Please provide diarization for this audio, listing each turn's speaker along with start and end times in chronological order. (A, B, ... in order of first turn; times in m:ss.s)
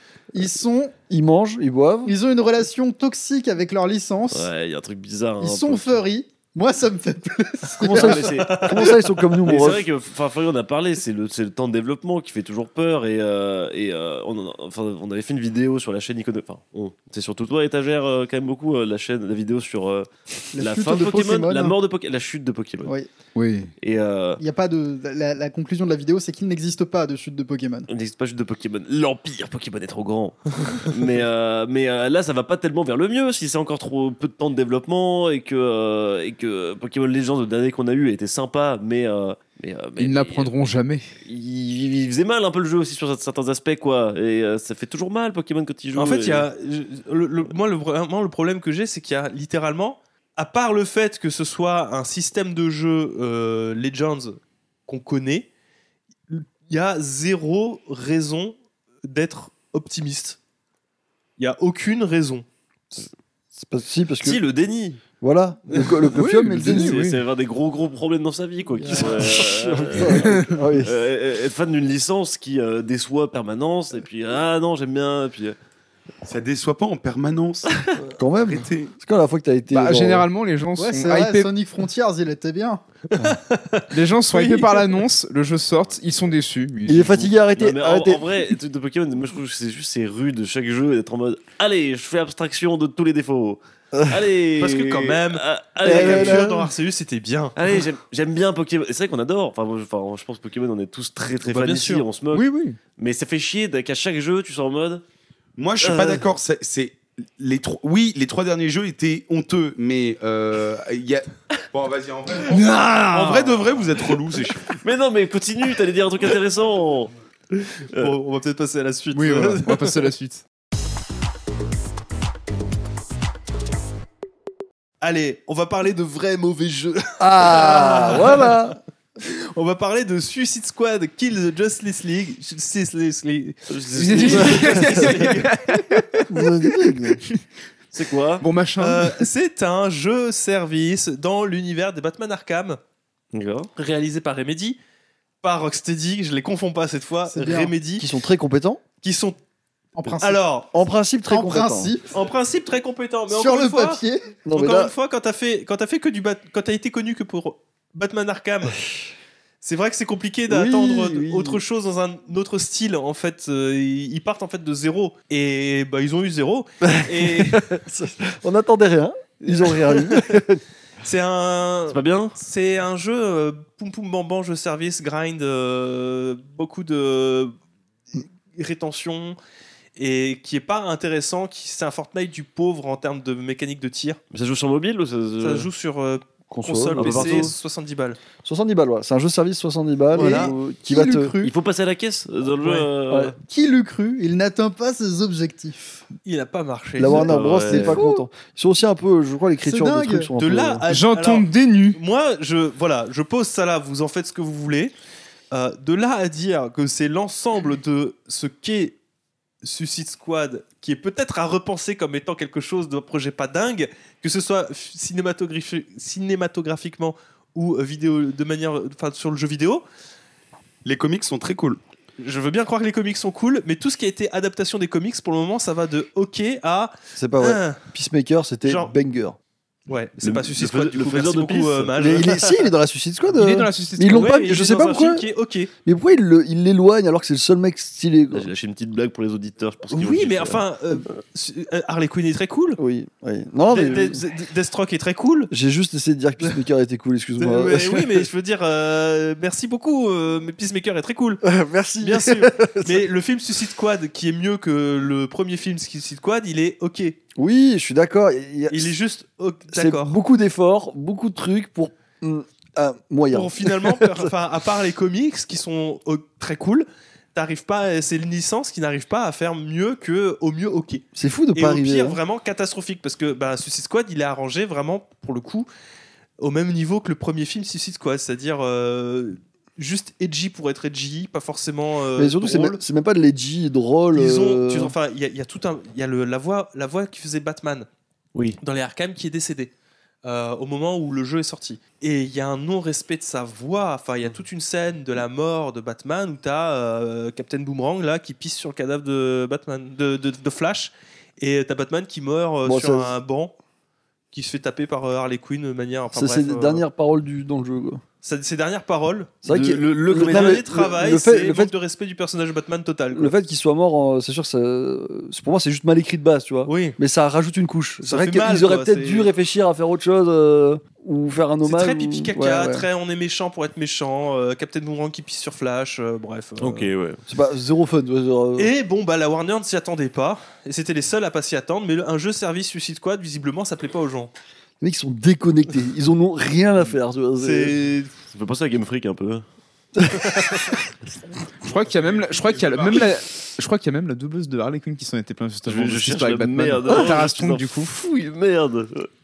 0:00.3-0:01.0 A
0:01.1-0:02.1 B
0:02.0-0:04.5 A
0:04.3-0:06.0 C
0:05.4-0:08.7 A
0:07.8-0:22.9 C
0:07.8-0:09.9 B
0:08.4-0:08.9 D
0:20.5-0:21.8 A
0:23.4-0:23.7 E
0:23.8-0:24.4 C
0:24.4-0:27.9 A
0:27.9-0:40.5 C
0:40.0-0:41.1 E
0:41.2-0:46.5 C
0:46.0-0:55.5 D
0:56.3-1:00.4 D
1:01.4-1:02.4 D
1:03.6-1:04.4 B
1:04.2-1:05.0 C
1:05.2-1:07.0 B
1:06.1-1:07.2 E
1:06.6-1:15.6 C
1:08.8-1:10.9 B
1:10.1-1:10.6 E
1:16.2-1:17.8 F
1:18.0-1:20.3 B
1:18.4-1:18.9 F
1:19.7-1:21.5 E
1:20.8-1:22.8 A
1:23.1-1:25.0 D
1:23.9-1:27.3 E
1:26.9-1:28.4 B
1:27.6-1:36.5 C
1:33.9-1:34.2 B
1:34.6-1:37.6 D
1:35.9-1:36.7 B
1:37.6-1:42.4 C
1:41.4-1:42.0 D
1:42.3-1:42.8 E
1:43.0-1:45.0 C
1:45.6-1:54.7 F
1:45.8-1:46.3 C
1:53.0-1:53.4 D
1:54.7-1:57.1 C
1:57.9-2:00.1 D
1:59.1-2:00.4 E
2:05.0-2:15.5 D
2:07.2-2:08.8 B
2:13.7-2:15.2 C
2:14.0-2:17.4 E
2:16.3-2:17.2 B
2:17.9-2:18.4 C
2:18.4-2:19.3 E
2:18.8-2:22.8 D
2:23.3-2:23.7 C
2:23.8-2:24.8 D
2:25.4-2:28.1 D
2:27.3-2:27.7 A
2:28.0-2:28.8 B
2:29.0-2:29.4 D
2:30.0-2:30.4 A
2:30.1-2:30.7 D
2:30.7-2:31.9 B
2:31.3-2:32.1 A
2:32.1-2:38.8 D
2:33.3-2:34.4 A
2:34.4-2:34.9 B
2:39.6-2:47.8 D
2:40.5-2:41.6 B
2:46.8-2:50.6 B
2:49.4-2:50.4 D
2:51.0-2:57.5 D
2:51.9-2:52.4 C
2:58.2-2:59.4 D
3:00.0-3:04.2 D
3:04.3-3:05.7 C
3:05.4-3:08.2 D
3:06.5-3:07.6 B
3:07.0-3:07.5 C
3:08.4-3:11.3 B
3:10.1-3:10.5 D
3:10.1-3:11.5 A
3:11.4-3:13.4 C
3:12.6-3:12.9 D
3:13.1-3:13.4 B
3:13.4-3:16.0 A
3:16.3-3:17.3 D
3:17.0-3:20.8 B
3:17.1-3:18.3 A
3:17.1-3:18.0 C
3:19.6-3:20.3 A
3:20.4-3:24.9 D
3:20.9-3:22.0 E
3:25.5-3:29.0 D
3:29.6-3:39.8 D
3:40.8-3:41.8 F
3:42.2-3:47.8 D
3:47.2-3:49.4 B
3:48.6-3:48.9 D
3:49.9-3:52.7 D
3:50.2-3:52.0 C
3:52.0-3:55.3 B
3:53.3-3:54.3 E
3:54.1-3:55.7 D
3:55.8-3:58.5 B
3:58.3-4:00.6 C
3:59.9-4:02.8 D
4:02.8-4:04.2 B
4:03.7-4:05.5 D
4:05.5-4:08.3 B
4:07.4-4:11.4 D
4:11.4-4:13.0 B
4:12.0-4:17.2 D
4:17.4-4:19.0 B
4:18.7-4:20.2 D
4:19.7-4:24.3 B
4:23.3-4:35.7 D
4:31.2-4:32.2 B
4:36.4-4:42.8 D
4:42.2-4:44.9 B
4:44.1-4:47.9 D
4:48.6-4:49.7 D
4:50.2-5:03.5 D
5:02.6-5:03.2 B
5:04.3-5:06.8 D
5:06.1-5:08.0 B
5:08.2-5:09.4 D
5:09.4-5:11.7 B
5:09.5-5:10.6 C
5:10.1-5:13.3 D
5:13.1-5:22.9 B
5:16.7-5:17.0 D
5:18.0-5:19.3 D
5:21.6-5:26.9 D
5:26.6-5:27.2 C
5:27.3-5:28.7 B
5:28.6-5:34.3 D
5:34.8-5:37.8 B
5:37.4-5:38.1 D
5:38.3-5:39.4 C
5:40.0-5:40.3 B
5:41.6-5:47.9 E
5:41.7-5:43.1 F
5:45.7-5:49.1 C